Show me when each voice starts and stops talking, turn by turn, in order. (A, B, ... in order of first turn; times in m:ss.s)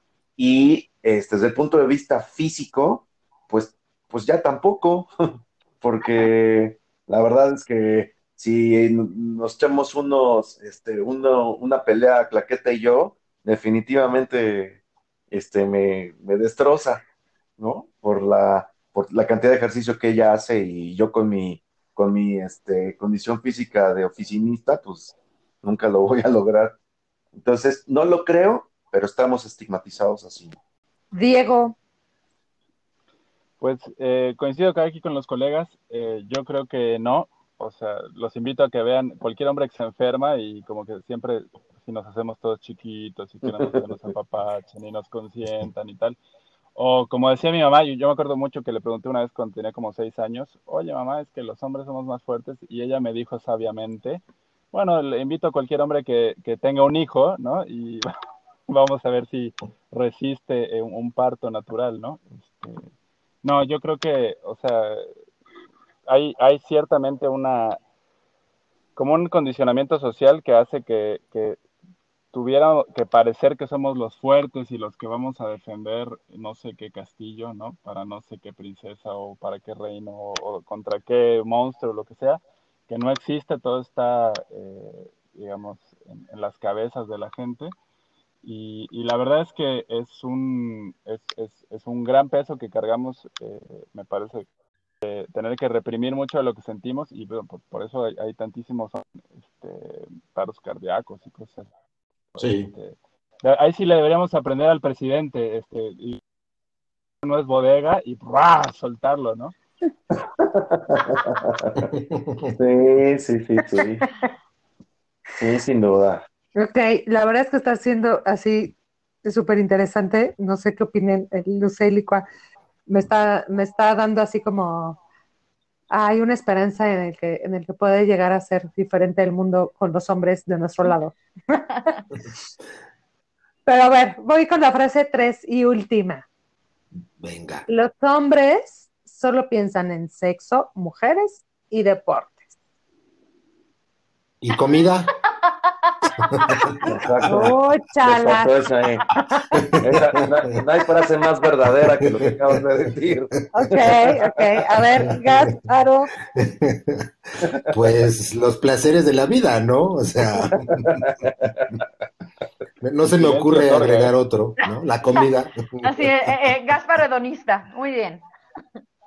0:00.4-0:14.8 A
0:15.3-0:17.0 A
0:17.6-0:26.8 A
0:27.3-0:30.6 A
0:31.1-0:31.8 B
0:33.6-0:46.2 C
0:46.8-0:54.2 C
0:54.7-0:58.1 C
0:58.7-1:02.8 C
1:03.4-1:05.1 C
1:06.1-1:07.8 C
1:09.0-1:11.6 C
1:12.3-1:27.7 C
1:28.4-1:34.5 C
1:35.0-1:41.6 C
1:42.3-1:46.2 C
1:42.4-1:42.7 D
1:47.2-1:49.5 C
1:50.1-1:51.9 A
1:51.9-1:52.5 D
1:52.6-1:54.0 A
1:55.4-1:56.2 A
1:56.6-2:02.2 B
2:02.9-2:05.0 B
2:05.9-2:11.9 B
2:13.7-2:16.2 B
2:17.2-2:17.7 D
2:17.7-2:22.5 B
2:24.4-2:25.1 D
2:25.5-2:26.6 E
2:26.3-2:27.0 D
2:26.8-2:29.0 A
2:27.2-2:28.5 B
2:29.3-2:30.0 B
2:29.6-2:30.1 D
2:29.8-2:34.3 A
2:33.5-2:36.1 B
2:35.1-2:35.5 D
2:36.3-2:37.1 D
2:37.6-2:41.0 D
2:40.5-2:41.3 A
2:42.8-2:46.3 D
2:43.1-2:44.1 C
2:45.8-2:48.2 E